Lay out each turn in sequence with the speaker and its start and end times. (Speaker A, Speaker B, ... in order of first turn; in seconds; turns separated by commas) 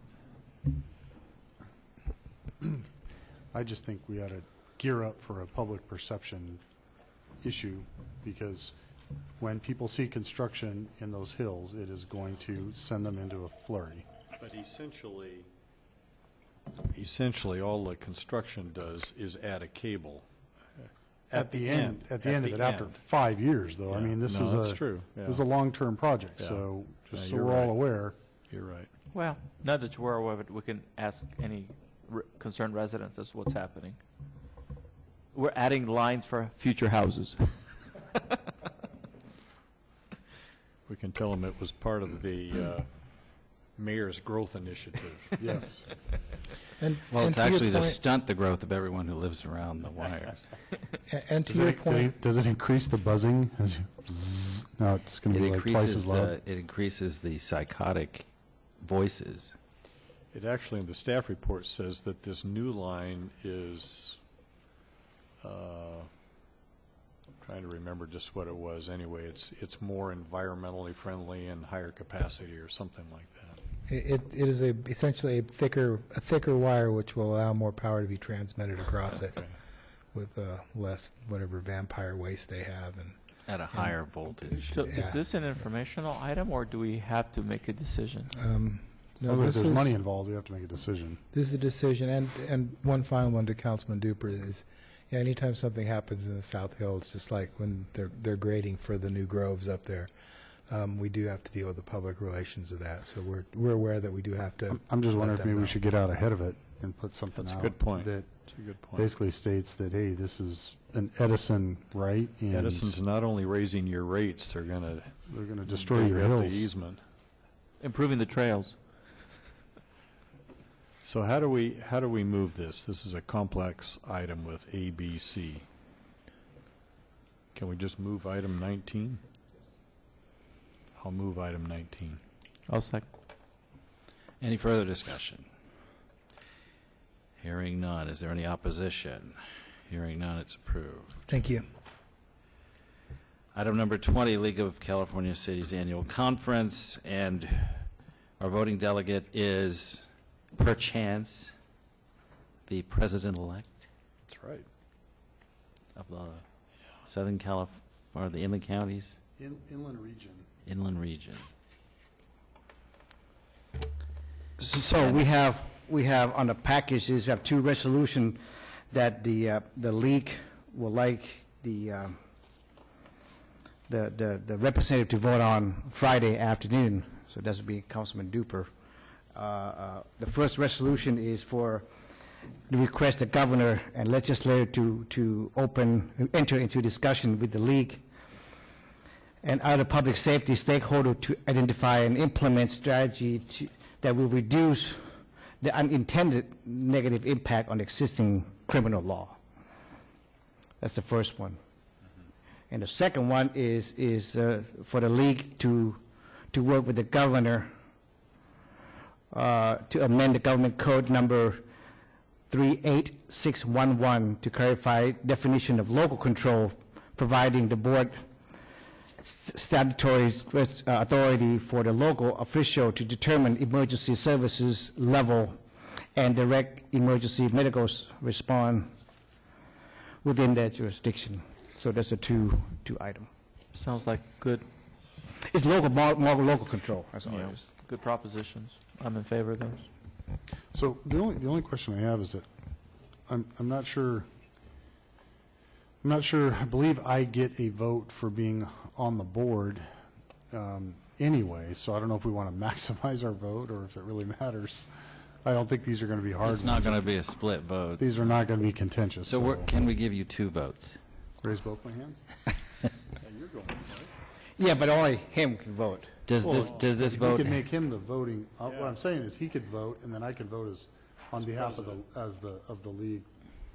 Speaker A: 3.5-6.6, Speaker A: 7.4-8.8, Speaker A: 9.4-14.1, Speaker B: 14.4-15.5, Speaker B: 16.8-23.0, Speaker A: 21.3-28.1, Speaker B: 23.9-25.5, Speaker B: 26.4-27.9, Speaker B: 28.5-28.9, Speaker C: 29.1-34.0, Speaker C: 35.3-38.2, Speaker B: 40.9-45.4, Speaker A: 45.4-45.9, Speaker D: 46.8-48.0, Speaker E: 47.1-50.5, Speaker D: 51.1-52.1, Speaker A: 51.5-56.4, Speaker E: 55.3-58.3, Speaker E: 58.8-59.5, Speaker B: 60.3-64.2, Speaker B: 65.4-66.1, Speaker B: 67.4-73.6, Speaker D: 73.9-79.5, Speaker B: 79.2-79.6, Speaker D: 80.1-85.2, Speaker E: 83.5-84.9, Speaker C: 84.7-88.3, Speaker D: 88.3-90.0, Speaker A: 89.2-91.2, Speaker D: 91.3-100.1, Speaker D: 100.7-105.8, Speaker A: 104.7-113.0, Speaker B: 107.3-109.1, Speaker B: 112.5-117.0, Speaker A: 115.2-116.7, Speaker C: 117.8-118.8, Speaker B: 121.0-125.7, Speaker B: 127.5-129.2, Speaker B: 131.0-132.2, Speaker C: 132.7-133.1, Speaker E: 134.4-135.4, Speaker E: 137.4-139.4, Speaker E: 139.9-141.2, Speaker D: 141.3-141.6, Speaker E: 143.5-151.5, Speaker E: 152.7-153.8, Speaker B: 154.3-154.7, Speaker E: 155.9-156.4, Speaker E: 157.1-159.2, Speaker A: 159.4-160.5, Speaker E: 160.7-161.5, Speaker F: 164.6-168.4, Speaker F: 168.9-172.2, Speaker F: 173.9-178.7, Speaker F: 179.3-181.9, Speaker F: 182.7-188.0, Speaker F: 189.4-199.4, Speaker F: 200.8-201.6, Speaker F: 202.7-206.0, Speaker F: 206.5-207.7, Speaker F: 209.3-211.6, Speaker F: 212.5-218.2, Speaker F: 219.2-225.6, Speaker F: 226.2-228.9, Speaker F: 230.2-233.3, Speaker C: 233.7-234.7, Speaker F: 235.5-237.5, Speaker C: 237.2-239.9, Speaker A: 240.7-242.4, Speaker A: 243.3-244.3, Speaker A: 246.0-249.9, Speaker A: 250.5-254.9, Speaker A: 255.4-257.1, Speaker E: 256.4-258.1, Speaker A: 258.0-259.7, Speaker E: 259.2-261.0, Speaker A: 261.4-262.2, Speaker B: 263.1-264.1, Speaker F: 264.6-266.1, Speaker E: 266.2-267.6, Speaker A: 266.4-273.3, Speaker B: 266.6-266.9, Speaker B: 268.6-268.9, Speaker B: 271.3-272.0